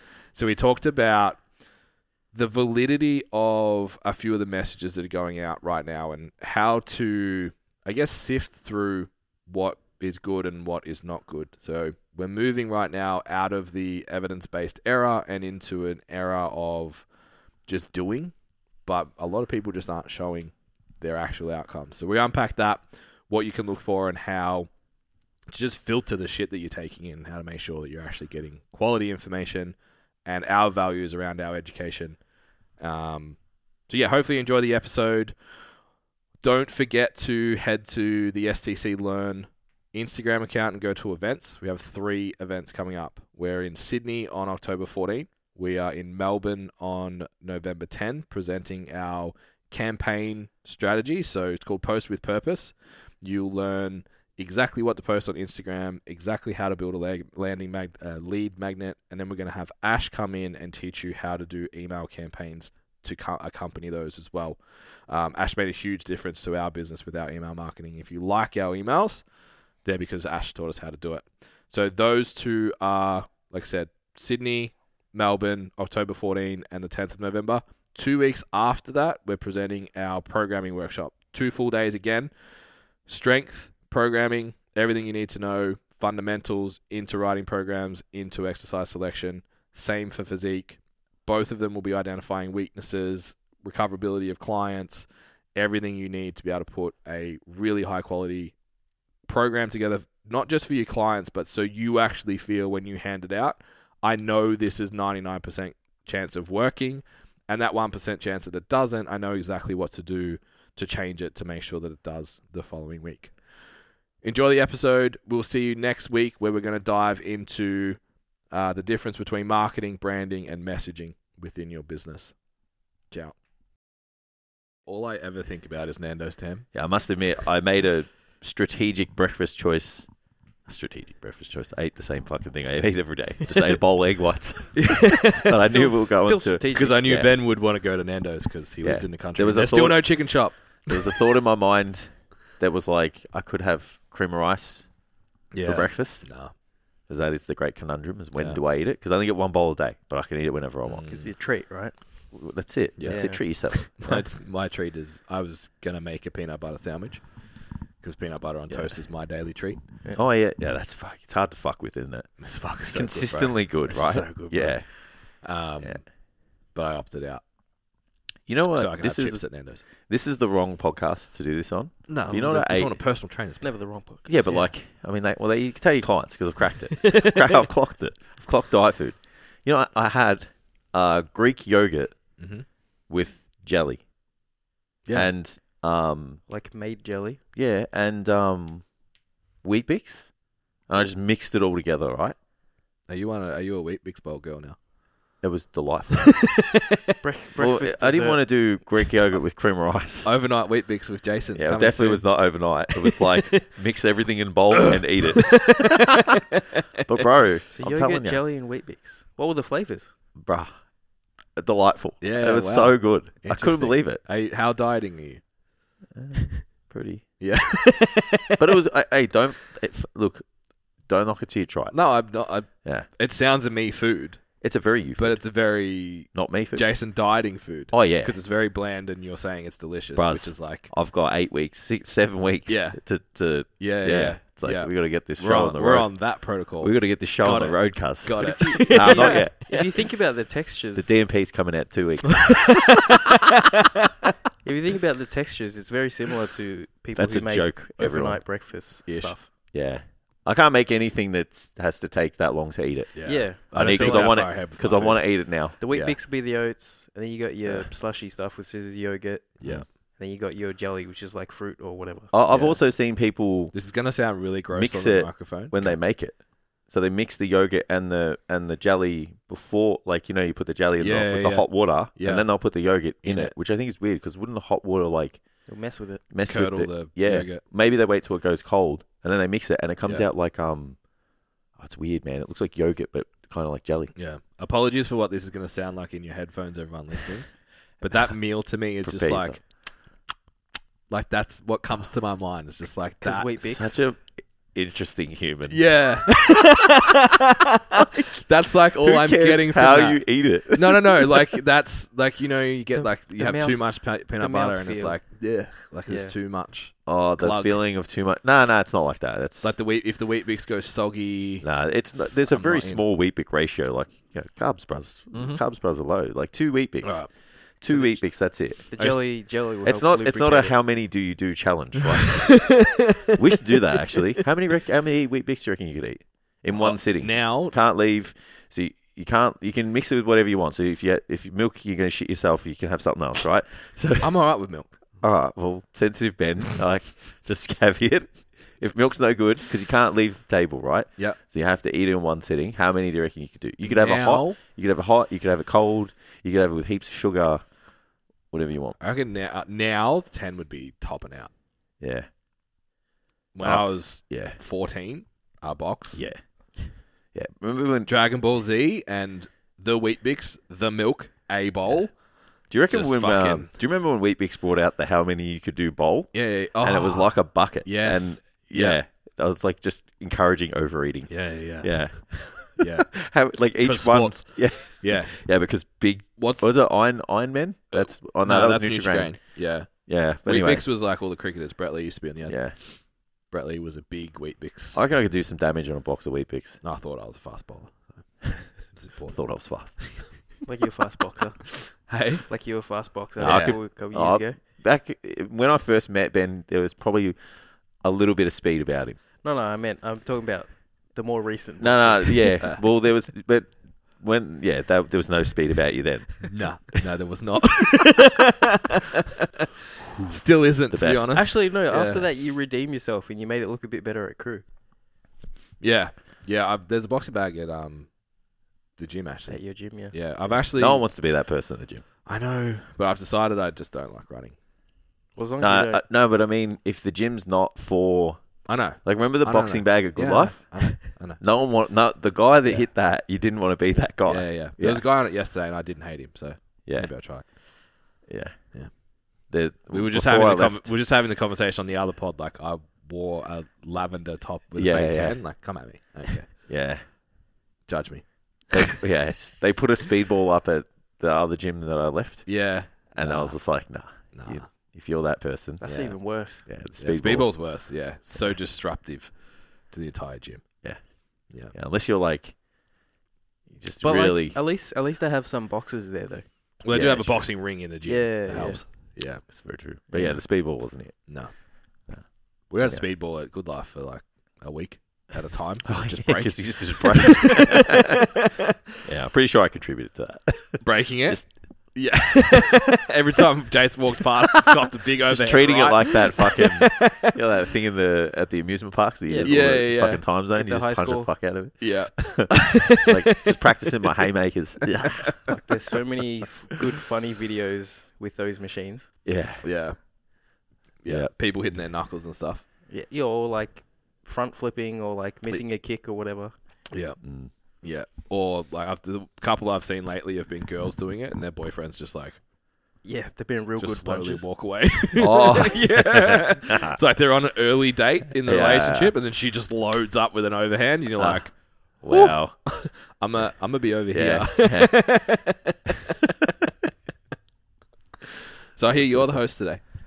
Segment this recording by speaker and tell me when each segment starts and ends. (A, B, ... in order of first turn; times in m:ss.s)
0:00.3-0:01.4 A
0:02.3-0:17.1 A
0:17.7-0:18.3 A
0:18.8-0:24.7 A
0:25.5-0:32.2 A
0:32.8-0:35.4 A
0:36.4-1:09.2 A
1:09.8-1:22.3 A
1:23.1-1:38.6 A
1:39.3-1:53.3 A
1:54.2-2:02.4 A
2:03.1-2:03.4 A
2:04.9-2:06.7 A
2:06.7-2:10.1 B
2:10.7-2:17.3 B
2:14.8-2:15.6 A
2:15.3-2:17.0 C
2:16.7-2:21.2 A
2:18.8-2:20.2 B
2:20.9-2:24.9 B
2:25.5-2:26.5 A
2:25.6-2:26.3 B
2:27.1-2:31.2 B
2:30.8-2:31.3 A
2:31.1-2:31.9 C
2:32.3-2:34.3 B
2:33.0-2:39.8 A
2:33.1-2:33.4 C
2:40.2-2:42.3 B
2:42.4-2:46.0 A
2:42.9-2:44.9 B
2:46.8-2:47.4 A
2:48.5-2:49.4 B
2:48.7-2:49.8 A
2:50.0-2:53.0 B
2:52.1-2:53.7 A
2:53.6-2:54.3 C
2:54.3-3:02.2 B
3:02.4-3:02.7 A
3:03.1-3:04.0 B
3:05.1-3:06.4 B
3:06.5-3:07.4 C
3:07.6-3:08.9 B
3:09.6-3:10.3 B
3:10.9-3:12.4 B
3:13.1-3:14.8 A
3:15.4-3:16.5 B
3:16.3-3:17.2 A
3:17.2-3:18.4 C
3:17.6-3:20.3 B
3:20.2-3:22.3 A
3:21.6-3:25.9 B
3:23.0-3:23.7 A
3:24.7-3:26.8 A
3:27.0-3:28.4 B
3:27.7-3:30.1 C
3:30.4-3:30.7 B
3:31.6-3:34.2 B
3:32.2-3:35.4 A
3:36.2-3:37.2 B
3:37.4-3:38.6 A
3:38.6-3:40.5 B
3:41.1-3:42.0 B
3:41.9-3:44.4 A
3:44.6-3:45.4 B
3:45.2-3:50.9 A
3:46.3-3:46.9 B
3:47.9-3:48.4 B
3:50.2-3:56.1 B
3:52.7-3:53.0 A
3:53.8-4:00.1 A
3:56.8-3:59.7 B
3:58.4-4:01.2 C
4:01.0-4:03.0 B
4:04.6-4:09.5 C
4:07.2-4:08.4 B
4:09.1-4:09.4 A
4:09.7-4:15.8 B
4:13.2-4:15.3 A
4:13.2-4:14.5 C
4:15.8-4:16.2 A
4:15.8-4:22.3 C
4:17.6-4:17.9 B
4:19.6-4:19.9 A
4:22.3-4:23.7 B
4:22.5-4:22.8 A
4:23.7-4:26.0 A
4:24.7-4:26.4 B
4:26.9-4:35.4 B
4:31.0-4:32.5 A
4:33.2-4:33.5 A
4:35.7-4:36.2 C
4:36.3-4:41.0 B
4:36.4-4:37.6 A
4:41.8-4:44.1 B
4:44.2-4:47.5 A
4:48.0-4:49.6 A
4:49.0-4:49.6 B
4:51.1-4:53.5 A
4:53.2-4:54.0 C
4:53.6-4:55.8 B
4:55.7-5:07.8 A
4:59.0-5:01.4 B
5:03.3-5:05.2 C
5:06.1-5:06.4 C
5:07.1-5:09.8 B
5:09.6-5:13.0 A
5:11.6-5:17.3 B
5:15.3-5:15.6 A
5:17.0-5:17.3 A
5:17.8-5:18.9 B
5:17.9-5:18.2 C
5:18.9-5:20.7 C
5:19.0-5:19.2 A
5:19.8-5:22.8 B
5:22.2-5:23.3 A
5:23.3-5:34.4 B
5:26.7-5:27.8 A
5:34.2-5:34.9 A
5:35.2-5:47.7 B
5:43.8-5:44.6 A
5:48.5-5:49.0 B
5:49.0-5:51.5 A
5:52.0-5:52.3 B
5:53.5-5:56.2 A
5:53.6-5:54.6 B
5:56.1-5:58.1 B
5:58.1-6:02.2 A
6:02.7-6:19.4 B
6:02.9-6:03.7 A
6:06.3-6:07.3 A
6:07.8-6:09.0 A
6:11.3-6:12.2 A
6:12.8-6:13.2 A
6:13.8-6:15.4 A
6:16.4-6:16.7 A
6:17.9-6:19.9 A
6:19.9-6:20.9 B
6:20.4-6:25.0 A
6:22.5-6:22.8 B
6:24.9-6:26.8 B
6:26.8-6:29.5 A
6:29.3-6:30.0 B
6:30.0-6:30.4 A
6:30.6-6:34.6 C
6:31.8-6:32.5 A
6:33.4-6:33.8 A
6:33.4-6:37.4 B
6:38.0-6:39.2 B
6:39.4-6:42.6 C
6:41.8-6:46.8 B
6:46.4-6:48.9 A
6:50.3-6:52.3 A
6:50.9-6:51.5 B
6:51.3-6:54.6 C
6:55.8-6:58.1 A
6:59.0-7:01.0 A
6:59.5-7:00.2 C
7:00.5-7:02.0 B
7:02.3-7:04.6 A
7:05.4-7:06.0 C
7:05.6-7:08.4 B
7:08.7-7:11.4 A
7:09.0-7:15.0 B
7:14.3-7:17.5 A
7:16.9-7:17.1 B
7:18.3-7:18.6 B
7:19.5-7:20.9 B
7:19.9-7:26.5 A
7:24.8-7:25.4 B
7:26.7-7:27.0 B
7:27.9-7:29.0 A
7:28.7-7:37.6 B
7:32.5-7:33.6 A
7:34.3-7:34.7 A
7:35.8-7:36.7 C
7:37.0-7:40.7 A
7:41.5-7:41.8 A
7:41.7-7:42.6 B
7:43.7-7:44.6 B
7:44.0-7:46.5 C
7:46.8-7:49.5 A
7:46.9-7:47.5 B
7:48.0-7:48.8 C
7:49.5-7:51.2 B
7:51.3-7:51.5 A
7:52.7-7:58.2 A
7:55.8-7:58.1 B
7:59.0-8:01.5 B
8:00.8-8:07.4 A
8:05.2-8:15.6 B
8:09.3-8:09.8 C
8:09.4-8:10.2 A
8:10.5-8:11.3 C
8:11.8-8:13.6 A
8:15.5-8:19.1 C
8:19.2-8:19.6 B
8:19.6-8:20.0 A
8:21.0-8:22.6 A
8:22.9-8:26.5 C
8:26.9-8:27.2 A
8:27.2-8:27.5 B
8:27.8-8:32.4 A
8:33.0-8:36.6 C
8:33.8-8:41.6 A
8:35.2-8:37.0 B
8:38.4-8:39.2 B
8:42.0-8:42.6 B
8:42.1-8:46.1 A
8:44.1-8:45.2 B
8:46.3-8:46.7 B
8:48.8-8:49.8 A
8:48.9-8:49.4 B